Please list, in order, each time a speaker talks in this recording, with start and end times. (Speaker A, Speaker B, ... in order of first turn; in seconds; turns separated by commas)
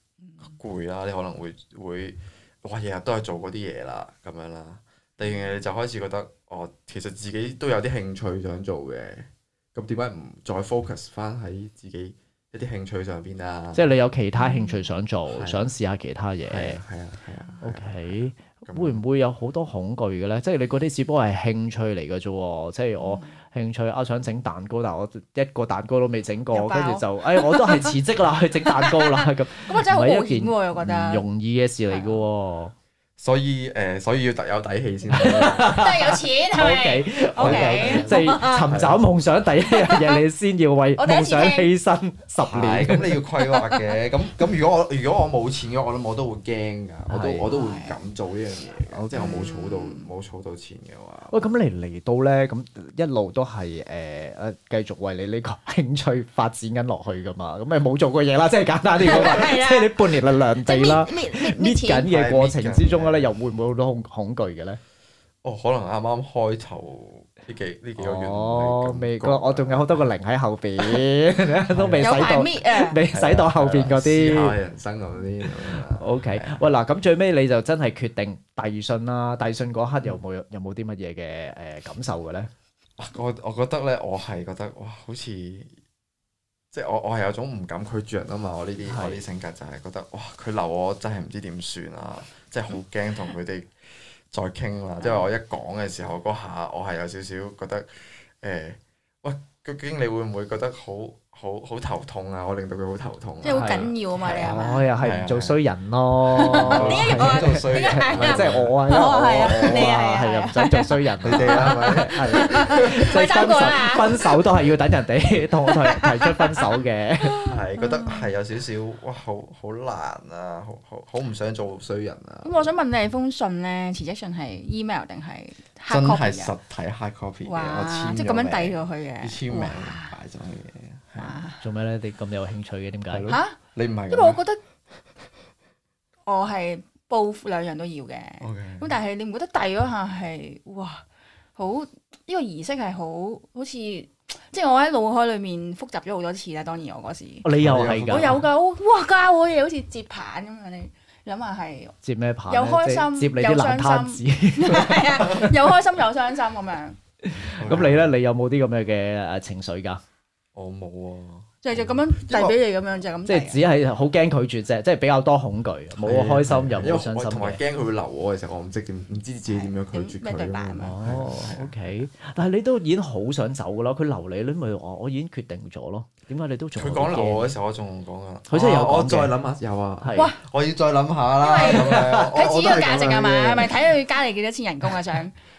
Speaker A: 0.4-13.8, Speaker B: 13.7-16.8, Speaker C: 14.4-14.8, Speaker A: 15.3-15.7, Speaker A: 16.5-19.0, Speaker B: 17.6-32.7, Speaker C: 23.0-23.3, Speaker C: 26.5-27.9, Speaker C: 28.6-31.2, Speaker C: 31.9-32.2, Speaker A: 33.2-35.8, Speaker B: 35.1-43.2, Speaker C: 35.4-38.7, Speaker A: 37.4-39.0, Speaker C: 39.7-40.2, Speaker C: 41.0-41.7, Speaker A: 42.5-51.5, Speaker C: 43.4-43.9, Speaker B: 47.1-47.5, Speaker C: 47.5-48.0, Speaker C: 49.1-50.1, Speaker B: 51.3-64.8, Speaker C: 59.0-62.1, Speaker A: 62.0-63.3, Speaker A: 65.4-70.1, Speaker B: 68.0-74.5, Speaker A: 71.7-72.3, Speaker C: 72.0-73.0, Speaker A: 73.1-76.6, Speaker B: 76.0-82.5, Speaker A: 83.0-85.8, Speaker A: 86.7-93.7, Speaker B: 88.9-89.2, Speaker A: 94.3-97.9, Speaker C: 95.0-95.3, Speaker A: 98.4-105.6, Speaker C: 103.4-104.9, Speaker B: 103.5-117.4, Speaker C: 106.3-114.4, Speaker A: 106.4-108.8, Speaker A: 109.3-110.0, Speaker A: 111.2-113.7, Speaker C: 115.7-116.6, Speaker C: 117.2-118.3, Speaker A: 117.4-122.8, Speaker C: 122.4-126.5, Speaker A: 125.9-131.4, Speaker C: 127.4-130.1, Speaker C: 131.2-131.6, Speaker B: 131.6-133.3, Speaker A: 133.1-134.4, Speaker C: 133.3-133.6, Speaker C: 134.1-134.6, Speaker C: 136.2-141.0, Speaker A: 138.4-138.9, Speaker C: 141.6-147.4, Speaker B: 147.4-148.4, Speaker A: 147.6-148.4, Speaker C: 148.1-151.9, Speaker B: 152.0-155.5, Speaker C: 152.5-157.0, Speaker B: 157.3-160.0, Speaker A: 157.6-158.1, Speaker A: 160.5-162.6, Speaker C: 161.6-163.6, Speaker B: 163.2-167.6, Speaker A: 166.0-171.9, Speaker C: 169.5-171.0, Speaker B: 170.8-177.5, Speaker A: 176.8-183.8, Speaker B: 178.5-179.3, Speaker B: 180.0-180.3, Speaker C: 181.4-185.3, Speaker B: 181.6-182.3